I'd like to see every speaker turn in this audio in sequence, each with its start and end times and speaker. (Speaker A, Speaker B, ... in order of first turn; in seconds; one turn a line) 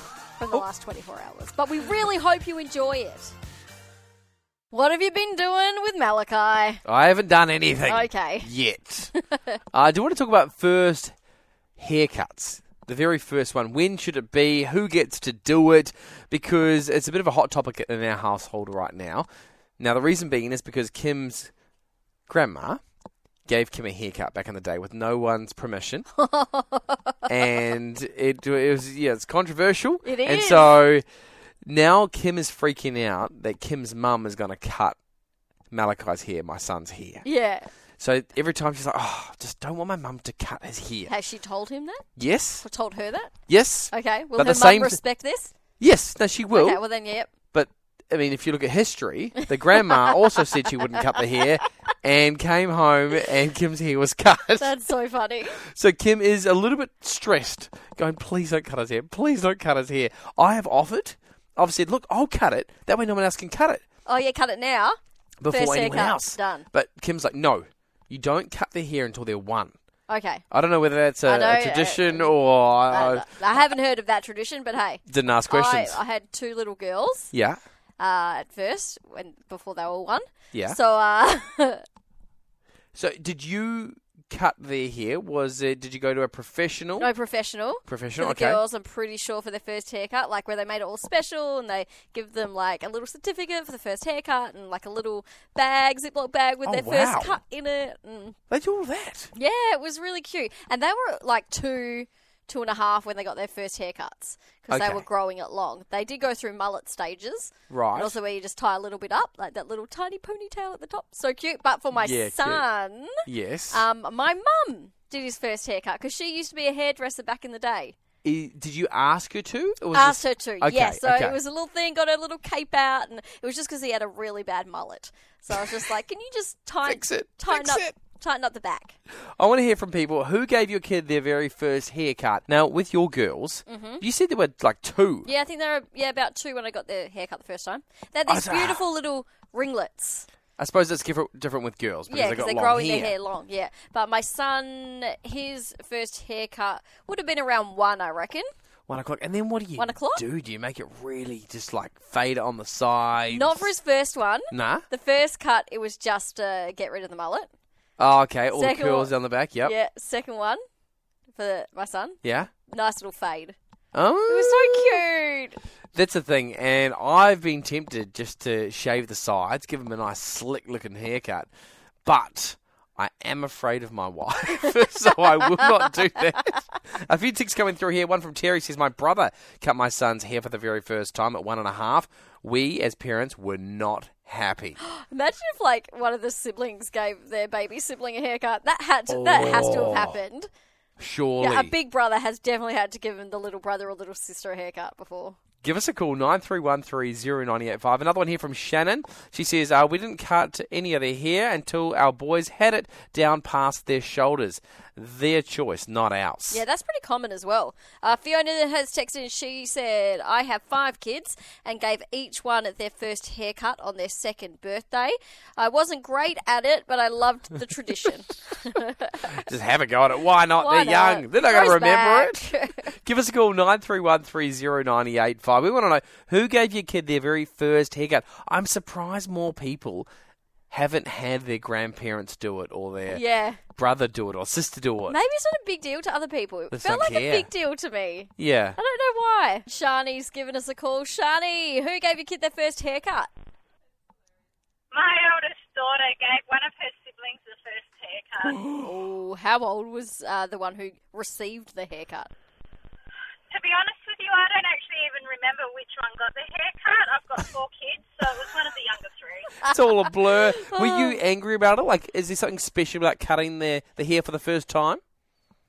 Speaker A: 0.4-3.3
Speaker A: 4.7-6.8
Speaker B: 6.8-9.1
Speaker A: 7.9-8.5
Speaker A: 9.2-9.6
Speaker B: 9.7-11.2
Speaker B: 11.8-19.3
Speaker B: 19.8-21.5
Speaker B: 22.3-22.8
Speaker B: 23.5-26.1
Speaker A: 26.2-27.3
Speaker B: 27.3-31.1
Speaker A: 30.1-30.8
Speaker B: 31.6-35.0
Speaker B: 35.7-37.2
Speaker A: 37.2-37.7
Speaker B: 38.0-41.1
Speaker A: 41.1-42.1
Speaker B: 42.2-42.7
Speaker A: 42.6-43.3
Speaker B: 43.5-45.0
Speaker A: 43.9-45.5
Speaker B: 45.8-46.8
Speaker A: 46.5-47.3
Speaker B: 47.5-54.7
Speaker A: 54.6-55.6
Speaker B: 55.6-63.8
Speaker A: 64.1-65.0
Speaker B: 65.4-69.8
Speaker A: 65.5-66.7
Speaker A: 70.1-70.5
Speaker B: 70.5-73.3
Speaker A: 71.2-72.3
Speaker A: 72.9-77.3
Speaker B: 75.1-76.0
Speaker B: 77.3-77.6
Speaker A: 78.0-81.8
Speaker B: 80.5-80.8
Speaker B: 83.0-87.1
Speaker A: 87.0-98.4
Speaker B: 87.9-88.6
Speaker B: 96.7-97.4
Speaker B: 98.5-99.3
Speaker A: 99.3-118.0
Speaker B: 104.7-105.0
Speaker B: 107.7-108.2
Speaker B: 111.9-112.6
Speaker B: 113.2-113.8
Speaker B: 118.2-121.4
Speaker A: 119.9-129.0
Speaker B: 126.8-127.9
Speaker B: 129.4-135.3
Speaker A: 133.7-134.0
Speaker A: 135.3-140.3
Speaker B: 138.3-138.8
Speaker B: 140.6-143.1
Speaker A: 142.1-148.5
Speaker B: 148.9-153.7
Speaker A: 149.8-150.2
Speaker A: 153.3-157.5
Speaker B: 154.5-154.8
Speaker B: 158.0-159.7
Speaker A: 158.5-160.6
Speaker A: 161.3-162.2
Speaker B: 162.2-162.5
Speaker A: 162.7-163.6
Speaker B: 163.9-165.0
Speaker A: 164.3-165.6
Speaker B: 165.9-171.5
Speaker B: 172.1-184.8
Speaker A: 184.8-190.5
Speaker B: 189.1-190.2
Speaker B: 191.0-191.7
Speaker A: 191.4-195.4
Speaker B: 195.6-206.6
Speaker A: 206.5-219.4
Speaker B: 219.4-230.1
Speaker A: 220.6-222.9
Speaker B: 230.7-233.2
Speaker A: 233.1-233.6
Speaker B: 233.8-235.2
Speaker A: 235.1-243.3
Speaker B: 236.7-237.5
Speaker B: 238.4-238.8
Speaker C: 244.9-248.6
Speaker B: 248.5-248.9
Speaker A: 248.8-252.3
Speaker C: 253.5-259.6
Speaker B: 259.6-265.0
Speaker A: 260.6-261.2